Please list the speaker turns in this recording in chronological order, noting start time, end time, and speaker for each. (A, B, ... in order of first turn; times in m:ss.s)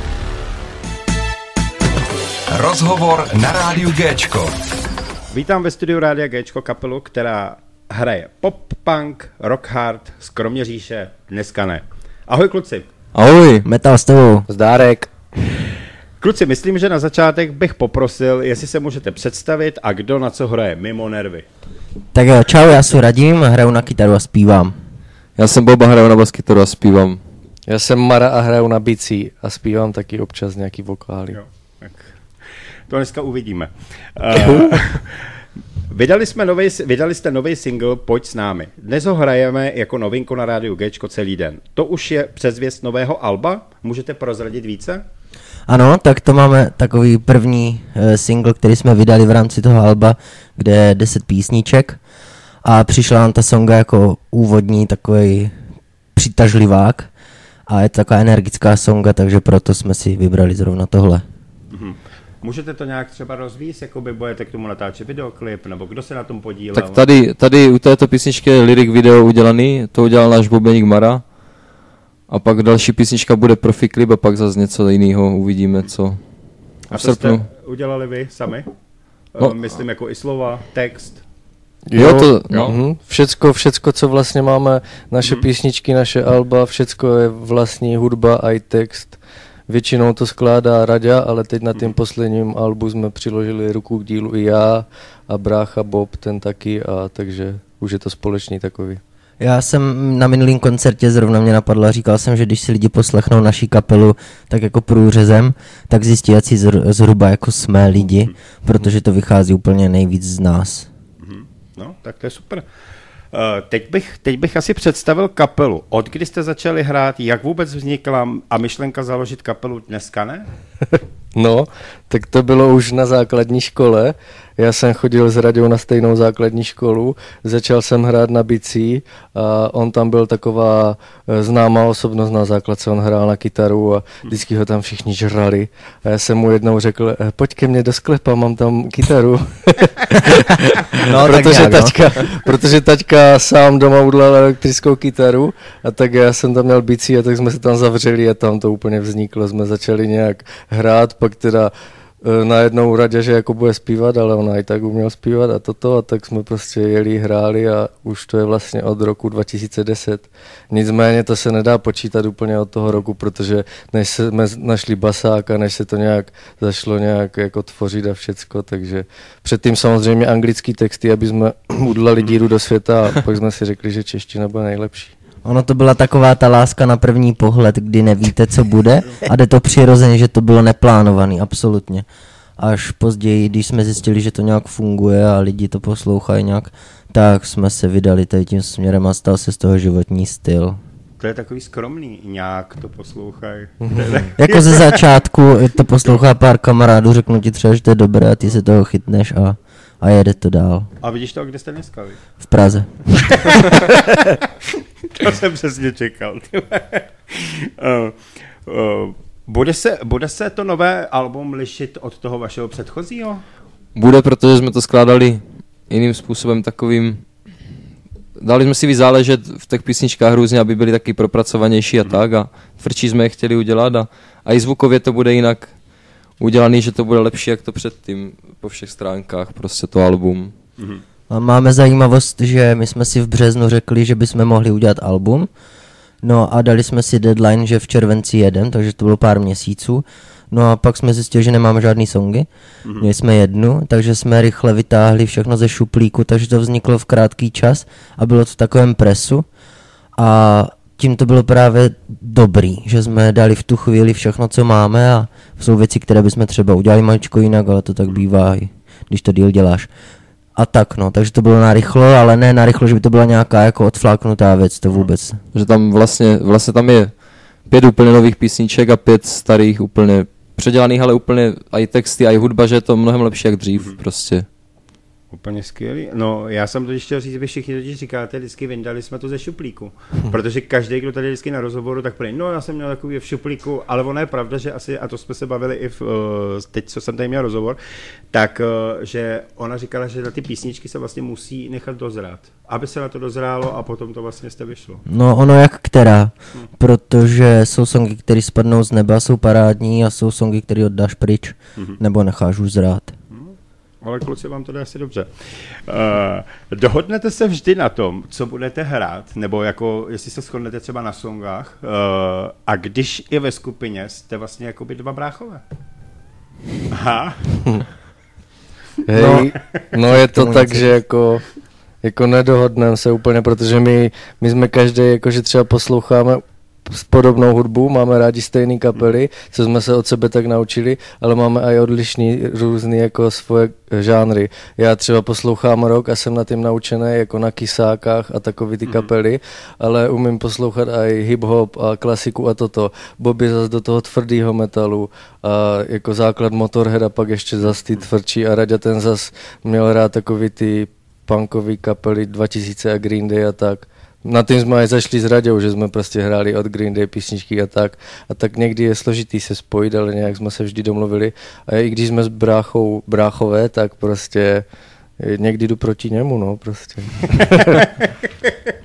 0:02.5-0:04.5 A
0:05.3-0:12.9 B
0:13.1-0:13.7 C
0:13.6-0:14.5 D
0:14.5-0:15.1 E
0:16.2-0:21.5 B
0:22.1-0:24.8 D
0:25.4-0:27.2 C
0:27.7-0:31.4 E
0:31.3-0:32.1 B
0:32.9-0:35.3 B
0:35.9-0:45.0 B
0:45.7-0:52.0 D
0:52.6-0:55.5 D
0:56.2-0:57.1 D
0:57.7-1:01.2 D
1:01.7-1:07.0 B
1:06.7-1:11.2 C
1:12.3-1:16.2 C
1:16.9-1:17.4 C
1:16.9-1:18.7 B
1:19.3-1:21.2 B
1:21.9-1:29.2 E
1:22.0-1:22.8 C
1:29.7-1:39.0 E
1:39.4-1:50.9 D
1:51.2-1:52.7 B
1:53.3-2:00.5 B
2:01.4-2:55.1 E
2:20.9-2:22.0 D
2:55.4-3:02.1 D
3:02.6-3:10.8 D
3:11.2-3:15.0 B
3:13.8-3:14.2 E
3:14.4-3:20.9 D
3:21.0-3:22.2 B
3:22.4-3:23.6 D
3:23.3-3:24.4 B
3:25.1-3:33.4 B
3:34.0-3:37.2 C
3:38.4-3:45.7 C
3:46.4-3:50.5 C
3:51.3-3:55.5 D
3:56.2-4:02.5 D
4:02.8-4:03.1 B
4:03.0-4:09.5 D
4:10.2-4:19.9 D
4:20.6-4:25.4 D
4:25.5-4:27.1 C
4:27.7-4:34.5 C
4:35.3-4:47.8 B
4:48.3-4:55.0 B
4:55.1-5:03.1 D
5:03.3-5:15.6 B
5:16.9-5:17.6 B
5:19.0-5:21.4 E
5:19.2-5:19.5 D
5:20.1-5:20.9 D
5:22.0-6:04.6 E
6:05.2-6:07.8 E